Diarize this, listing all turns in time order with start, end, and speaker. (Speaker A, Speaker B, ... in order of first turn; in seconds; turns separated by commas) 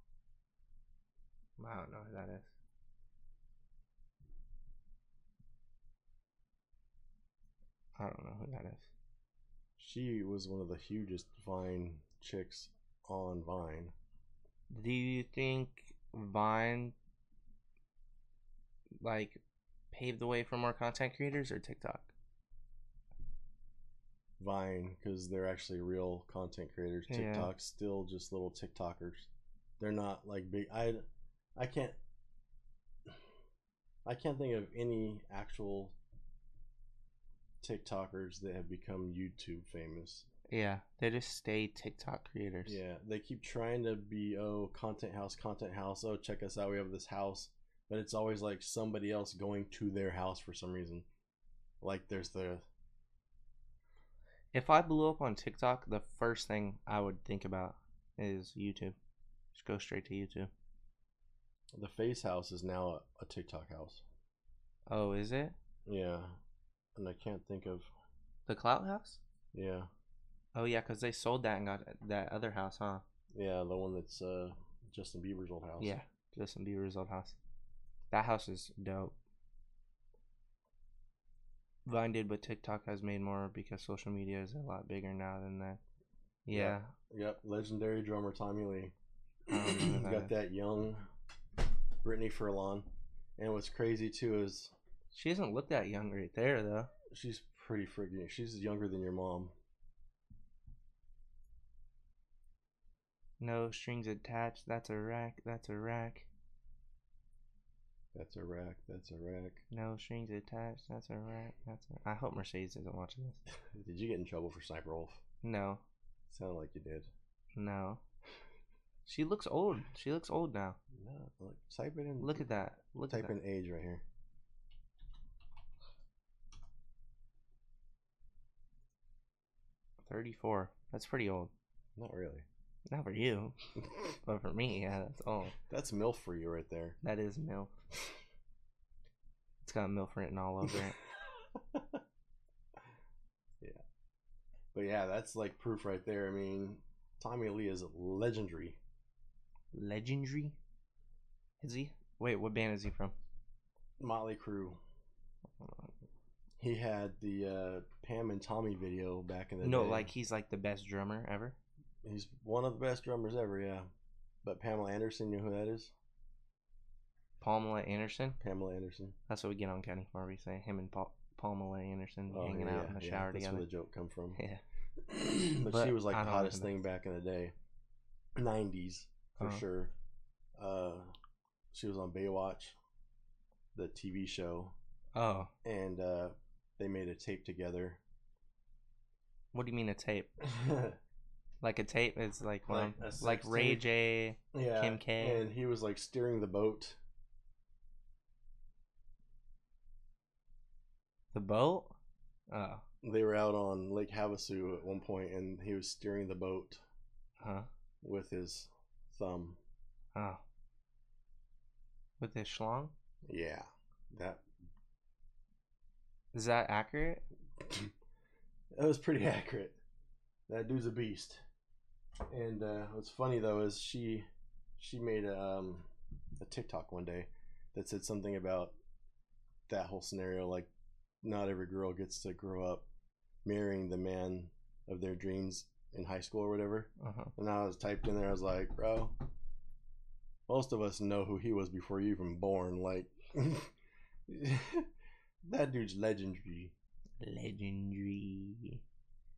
Speaker A: 1.6-2.5, Speaker A: 8.0-8.9, Speaker B: 9.8-13.9, Speaker A: 14.7-16.9, Speaker A: 19.0-19.4, Speaker A: 19.9-22.1, Speaker B: 24.4-29.3, Speaker A: 27.1-27.5, Speaker B: 29.8-31.1, Speaker B: 31.6-32.0, Speaker B: 34.0-36.0, Speaker B: 37.6-40.3, Speaker A: 40.5-42.8, Speaker B: 42.6-51.1, Speaker B: 51.8-52.6, Speaker A: 54.5-59.0, Speaker A: 59.5-60.5, Speaker B: 61.7-64.0, Speaker A: 64.9-65.5, Speaker B: 65.9-66.4, Speaker B: 67.0-67.9, Speaker A: 68.5-69.2, Speaker B: 69.5-69.9, Speaker A: 70.5-73.0, Speaker B: 73.3-76.0, Speaker A: 75.8-77.4, Speaker A: 78.1-79.2, Speaker A: 81.9-85.8, Speaker A: 86.5-86.9, Speaker B: 86.5-88.9, Speaker A: 89.5-90.3, Speaker B: 89.5-91.1, Speaker B: 92.0-94.7, Speaker A: 95.1-96.9, Speaker B: 97.1-99.5, Speaker A: 103.4-106.3, Speaker B: 108.1-109.6, Speaker A: 109.7-113.4, Speaker B: 113.7-115.2, Speaker A: 115.4-115.8, Speaker B: 116.3-117.1, Speaker A: 117.6-118.0, Speaker A: 119.1-120.8, Speaker B: 120.9-122.5, Speaker A: 122.2-123.3, Speaker B: 123.1-124.0, Speaker A: 130.0-131.5, Speaker B: 132.0-132.5, Speaker A: 132.9-133.6, Speaker A: 134.2-135.6, Speaker B: 135.7-137.0, Speaker A: 137.0-137.7, Speaker A: 139.6-141.0, Speaker B: 141.6-142.0, Speaker B: 144.7-148.8, Speaker A: 149.7-150.6, Speaker A: 151.6-153.2, Speaker B: 154.0-154.8, Speaker A: 155.6-155.9, Speaker B: 156.6-160.1, Speaker A: 159.6-161.6, Speaker B: 162.0-163.9, Speaker B: 164.4-165.9, Speaker A: 167.4-168.4, Speaker B: 168.4-169.2, Speaker A: 169.3-173.7, Speaker B: 172.3-174.4, Speaker A: 174.3-174.6, Speaker B: 175.0-177.5, Speaker A: 175.7-176.7, Speaker B: 178.4-179.9, Speaker B: 180.6-181.1, Speaker B: 181.7-182.8, Speaker B: 183.7-184.8, Speaker A: 185.2-185.5, Speaker B: 185.6-188.0, Speaker A: 189.5-190.3, Speaker B: 190.4-191.0, Speaker A: 191.6-195.4, Speaker B: 192.7-193.9, Speaker B: 194.5-197.0, Speaker A: 201.3-201.9, Speaker A: 202.5-202.8, Speaker B: 203.0-206.8, Speaker A: 207.4-207.7, Speaker B: 208.0-209.6, Speaker A: 210.2-210.4, Speaker A: 212.2-212.9, Speaker B: 213.3-214.4, Speaker A: 216.3-217.2, Speaker B: 217.6-217.9, Speaker B: 218.7-219.8, Speaker B: 220.5-221.4, Speaker B: 222.3-225.9, Speaker B: 226.4-228.7, Speaker B: 229.7-230.7, Speaker B: 231.2-232.9, Speaker B: 233.4-239.2, Speaker A: 237.0-237.3, Speaker B: 240.5-243.7, Speaker B: 244.3-244.9, Speaker B: 245.4-246.7, Speaker A: 247.2-248.8